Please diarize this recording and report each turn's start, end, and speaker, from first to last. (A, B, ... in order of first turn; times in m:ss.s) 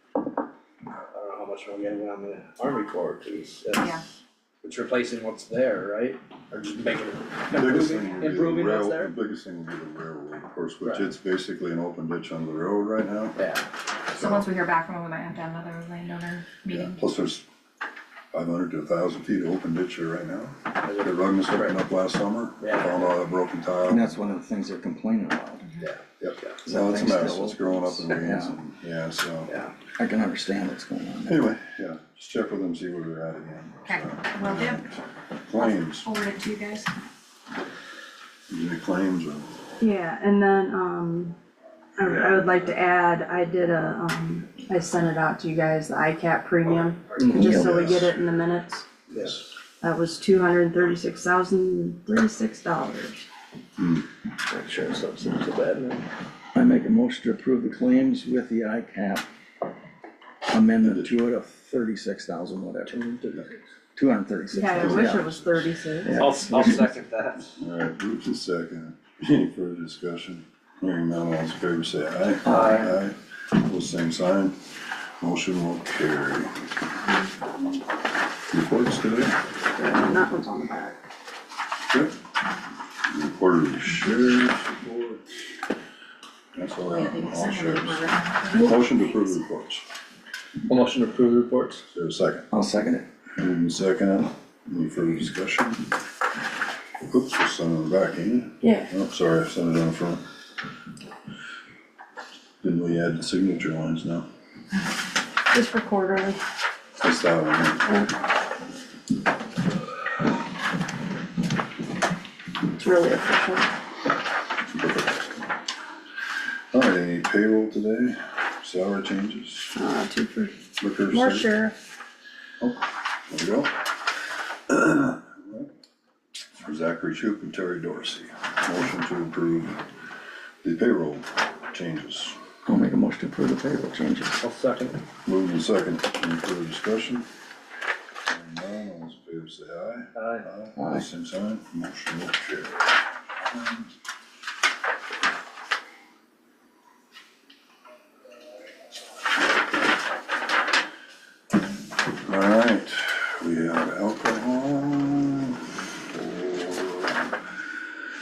0:01.1-0:04.0 A
0:03.8-0:04.0 B
0:04.6-0:06.2 A
0:06.5-0:06.9 C
0:06.7-0:09.1 A
0:07.5-0:13.4 C
0:08.0-0:08.3 B
0:10.8-0:11.1 A
0:13.4-0:13.6 A
0:14.1-0:17.0 B
0:14.2-0:14.5 C
0:16.7-0:17.5 C
0:18.3-0:24.1 C
0:20.8-0:21.8 A
0:22.6-0:23.1 A
0:23.9-0:25.6 D
0:25.8-0:26.6 A
0:26.2-0:29.5 C
0:26.6-0:28.6 D
0:30.0-0:31.4 D
0:31.3-0:35.0 C
0:33.9-0:35.0 B
0:35.5-0:36.1 C
0:35.6-0:36.9 B
0:38.5-0:39.5 C
0:39.8-0:41.4 E
0:42.0-0:48.9 E
0:42.1-0:42.4 A
0:47.2-0:47.6 A
0:47.3-0:48.0 D
0:47.4-0:48.1 C
0:49.1-0:49.4 A
0:49.8-0:53.3 E
0:53.8-0:54.1 C
0:54.5-0:56.1 A
0:56.5-0:59.3 D
1:00.5-1:03.1 D
1:00.8-1:01.2 C
1:02.9-1:03.6 A
1:04.0-1:05.3 D
1:04.5-1:06.7 E
1:04.8-1:05.6 C
1:06.0-1:06.9 D
1:06.2-1:07.5 A
1:07.6-1:14.6 C
1:12.4-1:13.0 A
1:12.4-1:12.9 D
1:15.2-1:16.5 C
1:18.5-1:19.4 C
1:19.7-1:21.0 E
1:23.1-1:25.2 C
1:26.6-1:29.8 C
1:26.9-1:29.1 B
1:30.7-1:31.8 A
1:31.9-1:32.5 C
1:32.5-1:33.1 D
1:33.4-1:35.9 C
1:37.1-1:40.2 C
1:38.6-1:38.9 E
1:42.6-1:44.3 C
1:45.5-1:46.4 E
1:47.0-1:47.9 C
1:52.8-1:53.7 E
1:54.8-1:55.3 C
1:56.7-1:59.8 C
1:59.8-2:00.6 E
2:00.8-2:01.5 C
2:01.1-2:01.8 E
2:02.6-2:03.7 C
2:04.7-2:05.7 C
2:06.6-2:09.8 C
2:10.6-2:12.4 C
2:12.7-2:14.4 D
2:14.4-2:15.0 A
2:15.2-2:17.3 C
2:18.3-2:22.9 C
2:20.2-2:20.5 A
2:20.8-2:21.0 D
2:23.4-2:23.9 C
2:32.3-2:35.6 C
2:36.1-2:37.3 C